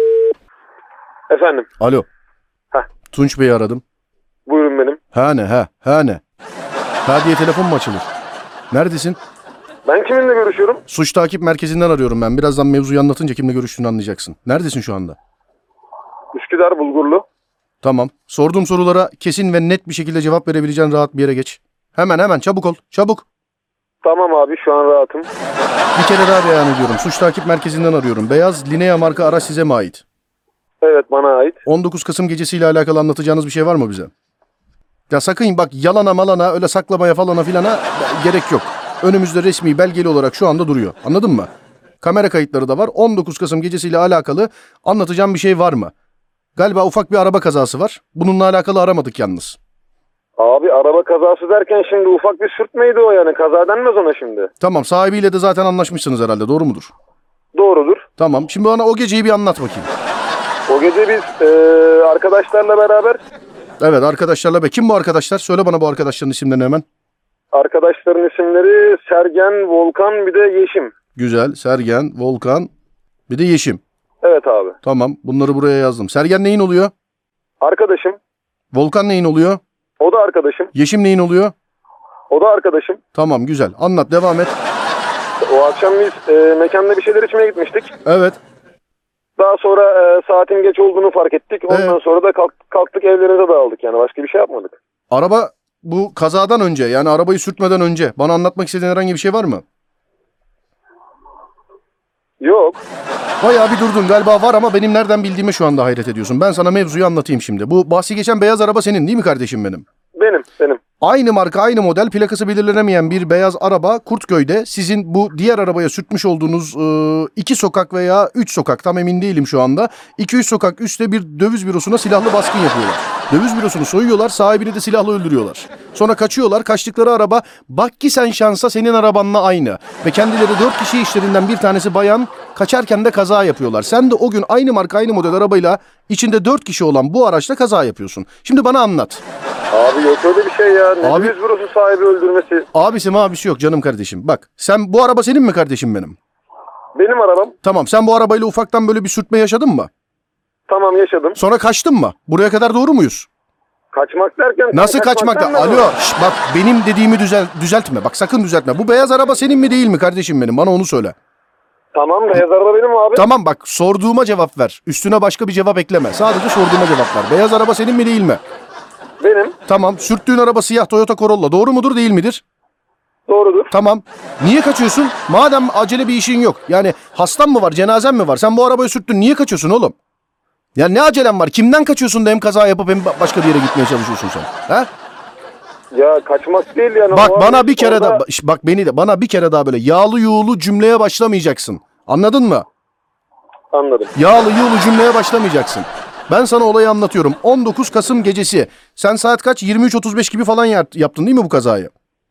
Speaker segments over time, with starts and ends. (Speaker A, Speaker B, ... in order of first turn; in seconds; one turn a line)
Speaker A: 1.3-1.7
Speaker B: 1.8-2.1
Speaker B: 3.1-3.8
Speaker A: 4.5-5.0
Speaker B: 5.1-6.2
Speaker B: 7.0-8.1
Speaker B: 8.7-9.2
Speaker A: 9.9-10.8
Speaker B: 10.9-15.2
Speaker A: 16.3-17.2
Speaker B: 17.8-23.2
Speaker A: 24.0-25.3
Speaker B: 25.9-30.0
Speaker A: 30.8-31.6
Speaker B: 31.7-34.1
Speaker B: 35.1-41.5
Speaker B: 42.0-45.9
Speaker B: 46.6-49.6
Speaker A: 50.4-54.5
Speaker B: 54.6-56.9
Speaker A: 57.5-58.0
Speaker B: 58.2-59.9
Speaker A: 60.7-63.2
Speaker B: 63.8-66.8
Speaker A: 67.5-70.9
Speaker B: 71.2-72.7
Speaker B: 73.3-73.8
Speaker A: 74.2-74.8
Speaker B: 74.8-76.9
Speaker A: 77.6-78.2
Speaker B: 78.7-79.6
Speaker A: 80.0-80.7
Speaker B: 80.7-81.5
Speaker A: 82.3-83.0
Speaker B: 83.2-84.5
Speaker A: 85.4-87.9
Speaker B: 88.0-88.4
Speaker A: 89.4-94.8
Speaker B: 91.7-92.0
Speaker B: 95.1-99.6
Speaker A: 102.4-102.8
Speaker B: 103.4-109.8
Speaker A: 110.2-110.8
Speaker B: 111.0-139.2
Speaker A: 139.7-142.7
Speaker B: 141.0-141.3
Speaker B: 142.7-146.2
Speaker A: 146.9-147.6
Speaker B: 147.6-149.9
Speaker A: 150.7-151.4
Speaker B: 151.4-153.3
Speaker A: 153.9-155.9
Speaker B: 154.7-161.1
Speaker A: 161.9-163.2
Speaker B: 163.2-168.4
Speaker A: 169.2-169.6
Speaker B: 169.7-172.4
Speaker A: 173.3-173.7
Speaker B: 173.7-179.9
Speaker B: 180.8-184.9
Speaker A: 185.9-188.2
Speaker B: 187.1-192.7
Speaker A: 193.7-194.1
Speaker B: 194.2-201.9